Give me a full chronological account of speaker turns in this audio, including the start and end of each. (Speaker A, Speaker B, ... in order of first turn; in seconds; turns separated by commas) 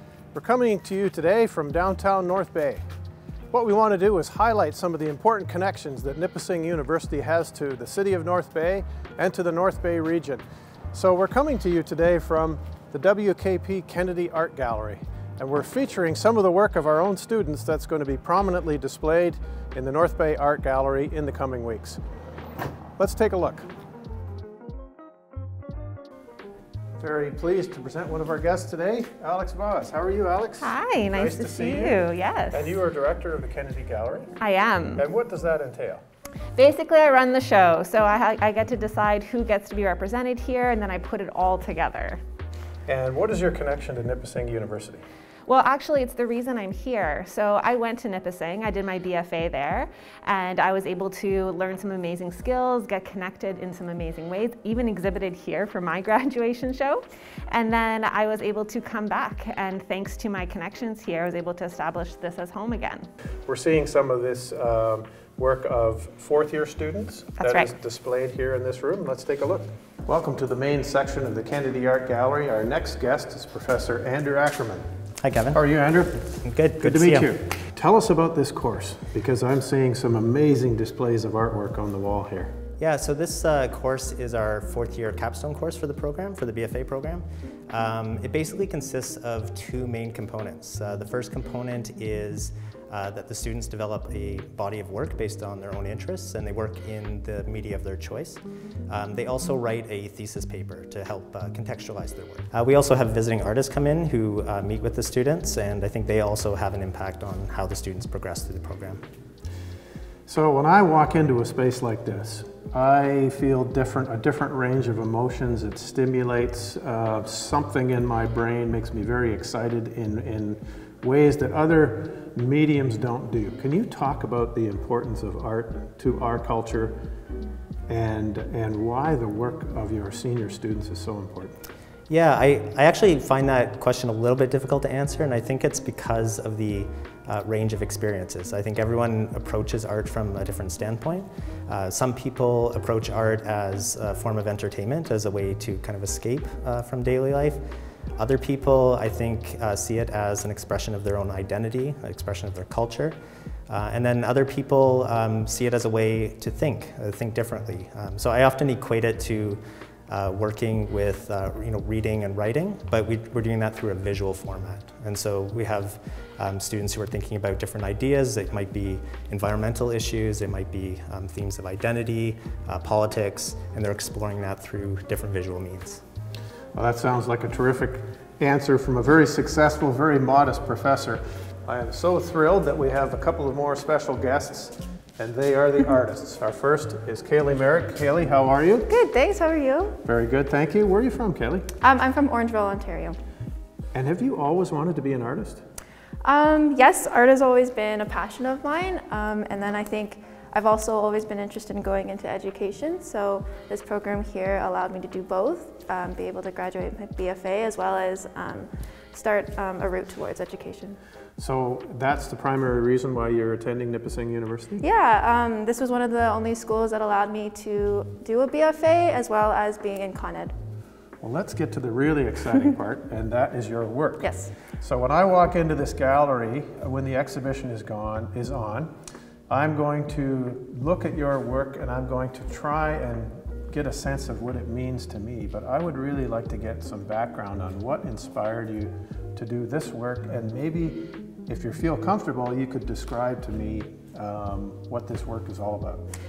Speaker A: 0.3-2.8, Speaker A: 3.5-22.0, Speaker A: 23.0-23.7, Speaker A: 27.0-32.0, Speaker B: 30.6-32.8, Speaker A: 32.5-34.3, Speaker B: 34.4-35.1, Speaker A: 35.0-36.0, Speaker B: 36.6-42.2, Speaker A: 42.9-45.0, Speaker B: 45.5-63.1, Speaker A: 63.5-74.9, Speaker B: 67.4-67.7, Speaker C: 75.2-75.6, Speaker A: 75.5-82.5, Speaker C: 76.4-77.3, Speaker C: 82.8-109.0, Speaker A: 110.3-127.0, Speaker A: 127.9-131.6, Speaker C: 132.1-147.6, Speaker C: 148.2-153.2, Speaker C: 153.7-176.0, Speaker A: 176.8-188.9, Speaker D: 188.9-190.0, Speaker A: 190.1-191.7, Speaker D: 191.8-193.2, Speaker A: 193.9-195.6, Speaker D: 196.2-211.0, Speaker A: 211.4-214.8, Speaker D: 214.8-220.5, Speaker A: 221.2-224.3, Speaker D: 224.2-224.5, Speaker A: 224.8-228.9, Speaker A: 229.5-246.1